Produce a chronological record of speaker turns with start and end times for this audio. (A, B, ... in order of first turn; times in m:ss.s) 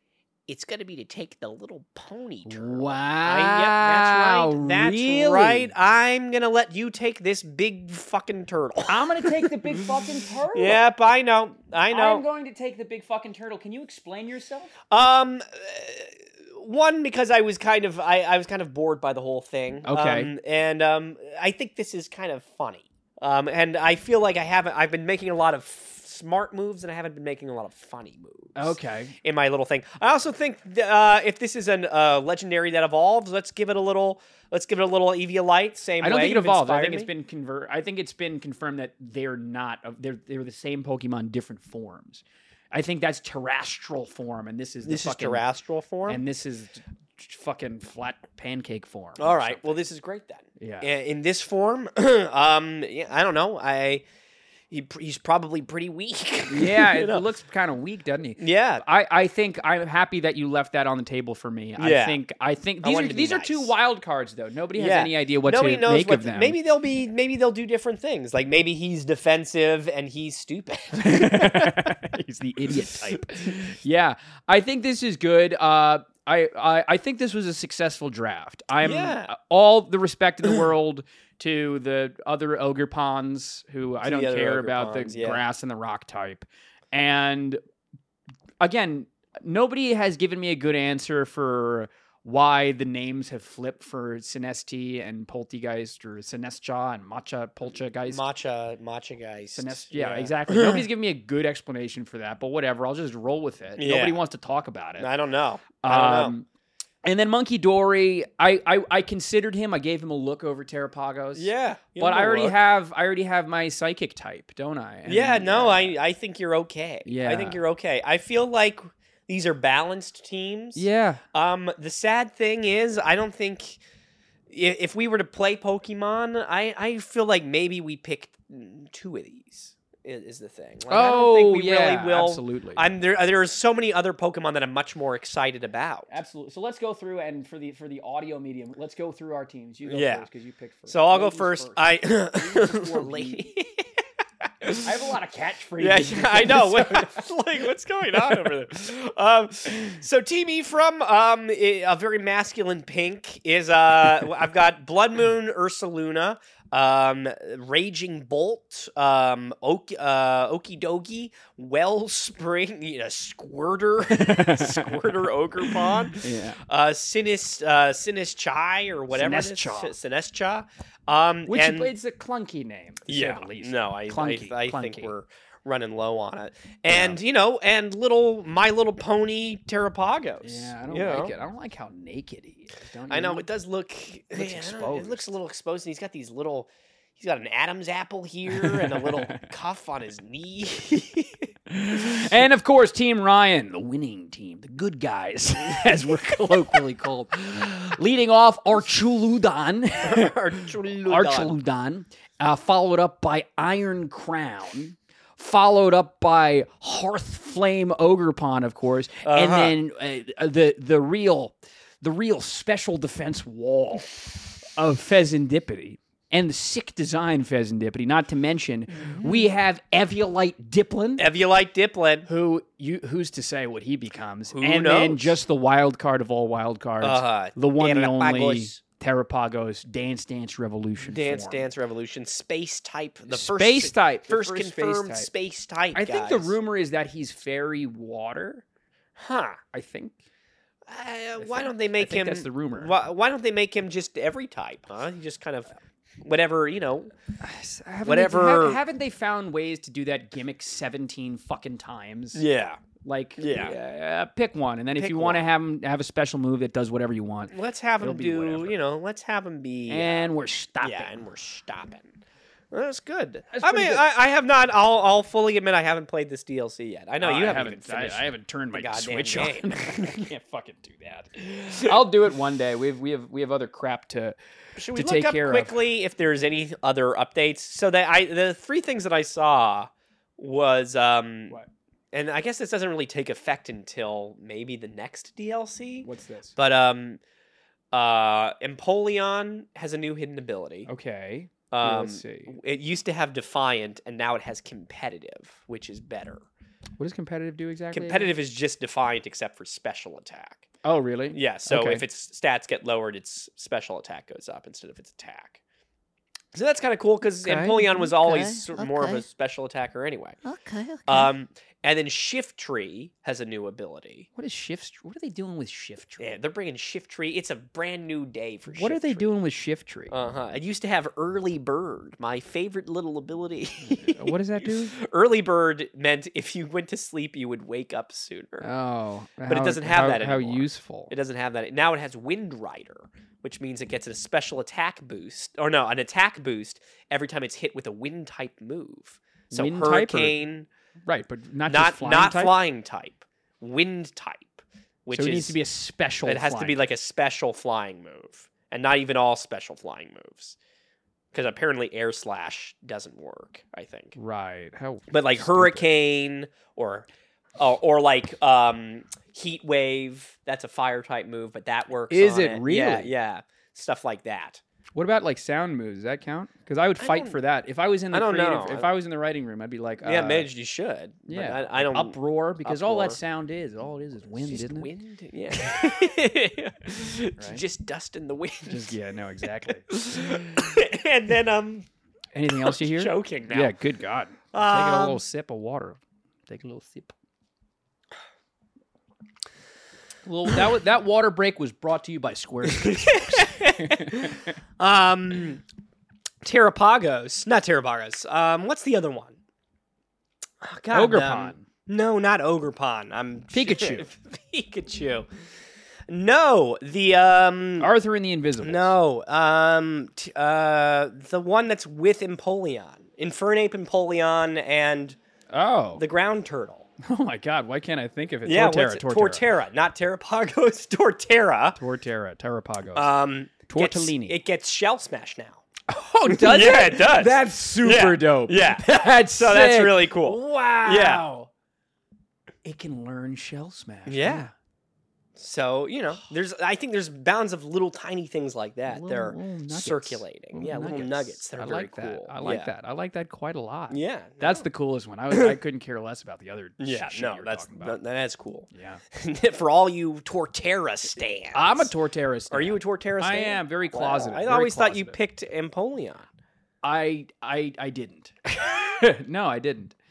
0:00.5-0:09.8 A
0:02.4-0:05.7 B
0:08.9-0:10.8 B
0:10.5-0:12.2 A
0:11.9-0:14.7 B
0:14.9-0:37.1 A
0:19.8-0:20.3 B
0:28.6-0:29.1 B
0:36.0-0:45.4 B
0:44.8-0:46.2 A
0:46.1-0:49.8 B
0:49.2-0:54.0 A
0:50.6-0:50.9 B
0:54.7-0:57.2 A
0:56.5-1:06.6 B
0:58.4-0:58.8 A
1:01.8-1:02.2 A
1:02.8-1:03.7 A
1:04.7-1:12.0 A
1:11.0-1:27.6 B
1:13.3-1:13.6 A
1:18.8-1:19.3 A
1:24.0-1:25.4 A
1:28.6-1:38.2 B
1:38.1-1:40.8 A
1:39.5-1:45.1 B
1:43.8-1:44.2 A
1:45.0-1:46.3 A
1:45.8-1:46.4 B
1:47.0-1:55.9 B
1:51.3-1:52.6 A
1:55.1-2:03.8 A
1:57.0-1:57.6 B
2:00.7-2:01.2 B
2:04.5-2:16.1 A
2:10.9-2:12.8 B
2:16.1-2:23.4 B
2:19.9-2:20.3 A
2:20.9-2:24.0 A
2:24.6-2:24.9 A
2:24.8-2:27.2 B
2:25.8-2:51.9 A
2:44.1-2:46.6 B
2:49.1-2:49.9 B
2:51.5-2:55.1 B
2:53.1-3:01.3 A
2:56.9-2:57.2 B
3:00.4-3:03.5 B
3:03.1-3:11.4 A
3:04.3-3:05.3 B
3:08.5-3:09.4 B
3:11.7-3:41.2 B
3:20.0-3:21.5 A
3:29.2-3:29.7 A
3:39.1-3:39.5 A
3:41.2-3:42.3 A
3:42.2-3:51.6 B
3:44.5-3:45.4 A
3:47.0-3:48.8 A
3:51.0-3:56.6 A
3:53.3-3:55.3 B
3:55.9-3:58.6 B
3:59.2-3:59.6 A
3:59.7-4:00.2 B
4:00.8-4:05.7 A
4:01.4-4:02.9 B
4:06.2-4:07.1 A
4:07.4-4:12.4 B
4:08.0-4:08.8 A
4:12.3-4:12.8 A
4:13.0-4:18.8 B
4:13.4-4:13.7 A
4:15.0-4:15.4 A
4:17.5-4:20.3 A
4:19.9-4:21.1 B
4:20.8-4:22.1 A
4:22.7-4:30.3 A
4:23.5-4:24.0 B
4:27.2-4:34.4 B
4:34.8-4:41.6 A
4:34.9-4:35.8 B
4:42.1-4:47.2 A
4:46.0-4:46.6 B
4:47.9-4:50.9 A
4:50.9-4:52.6 B
4:51.7-4:56.4 A
4:57.0-4:58.3 B
4:57.9-5:00.6 A
5:00.8-5:02.0 B
5:01.3-5:05.6 A
5:06.5-5:10.4 A
5:07.4-5:07.8 B
5:07.8-5:09.2 C
5:10.4-5:11.3 C
5:11.1-5:14.3 A
5:14.4-5:16.2 B
5:16.2-5:19.3 A
5:18.7-5:20.1 B
5:20.1-5:28.7 A
5:23.8-5:24.9 B
5:28.6-5:31.1 B
5:29.4-5:40.7 A
5:39.5-5:40.4 B
5:41.1-5:42.6 B
5:41.7-5:45.6 A
5:45.1-5:46.8 B
5:46.2-5:50.6 A
5:51.3-5:54.2 A
5:54.1-5:55.9 B
5:55.1-6:04.6 A
6:02.1-6:03.1 B
6:04.9-6:10.5 B
6:07.0-6:07.4 A
6:08.1-6:08.9 A
6:10.0-6:13.2 A
6:11.3-6:14.9 B
6:14.4-6:19.0 A
6:17.4-6:17.6 B
6:18.6-6:19.9 B
6:19.9-6:21.9 A
6:22.3-6:27.1 B
6:22.5-6:23.7 A
6:24.5-6:25.2 A
6:30.2-6:34.5 B
6:32.7-6:35.6 A
6:36.4-6:39.4 A
6:40.6-6:45.3 A
6:40.9-6:41.6 B
6:43.5-6:44.1 B
6:46.1-6:47.9 A
6:47.8-6:49.0 B
6:48.6-6:55.2 A
6:55.5-6:56.0 B
6:56.0-6:56.9 A
6:57.0-6:59.4 B
6:58.4-7:01.8 A
7:01.8-7:03.1 B
7:02.9-7:05.6 A
7:03.6-7:04.4 B
7:05.9-7:11.5 B
7:06.3-7:11.3 A
7:12.6-7:14.5 B
7:14.1-7:14.5 A
7:15.4-7:22.7 A
7:18.9-7:28.0 B
7:23.9-7:24.6 A
7:25.3-7:25.6 A
7:26.8-7:31.9 A
7:28.7-7:29.0 B
7:31.5-7:35.2 B
7:32.5-7:36.3 A
7:36.8-7:39.9 B